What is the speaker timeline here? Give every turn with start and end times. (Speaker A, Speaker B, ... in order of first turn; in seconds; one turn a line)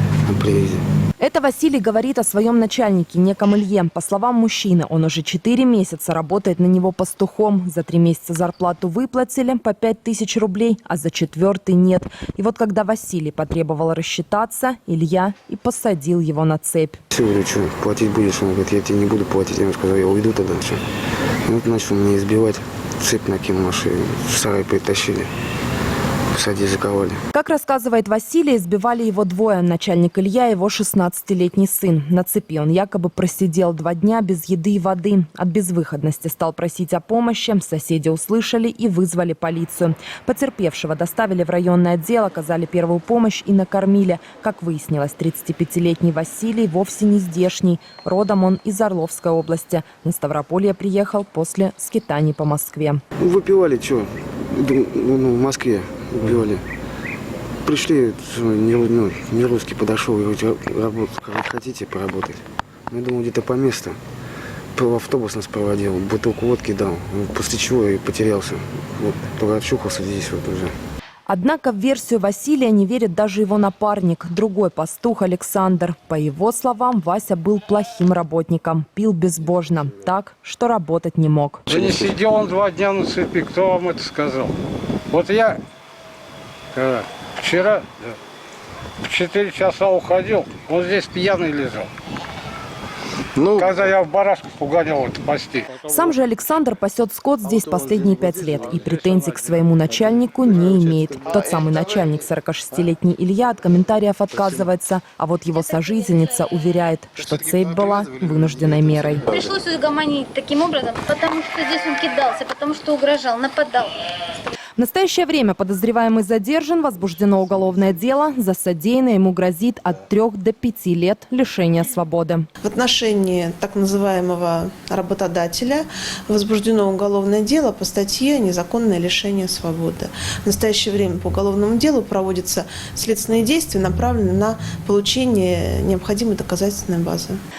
Speaker A: 0.2-0.8
Speaker B: 1.2-17.0
Speaker A: 17.1-20.8
Speaker A: 21.4-25.3
Speaker A: 26.3-27.2
Speaker B: 27.3-53.0
Speaker A: 53.2-56.6
Speaker A: 57.6-64.0
Speaker A: 64.8-70.8
Speaker B: 71.3-81.6
Speaker C: 81.7-84.5
Speaker C: 85.1-85.6
Speaker C: 86.7-88.1
Speaker C: 89.0-91.9
Speaker C: 93.5-95.9
Speaker B: 95.8-109.3
Speaker D: 109.3-113.9
Speaker B: 114.8-122.5
Speaker E: 122.6-137.4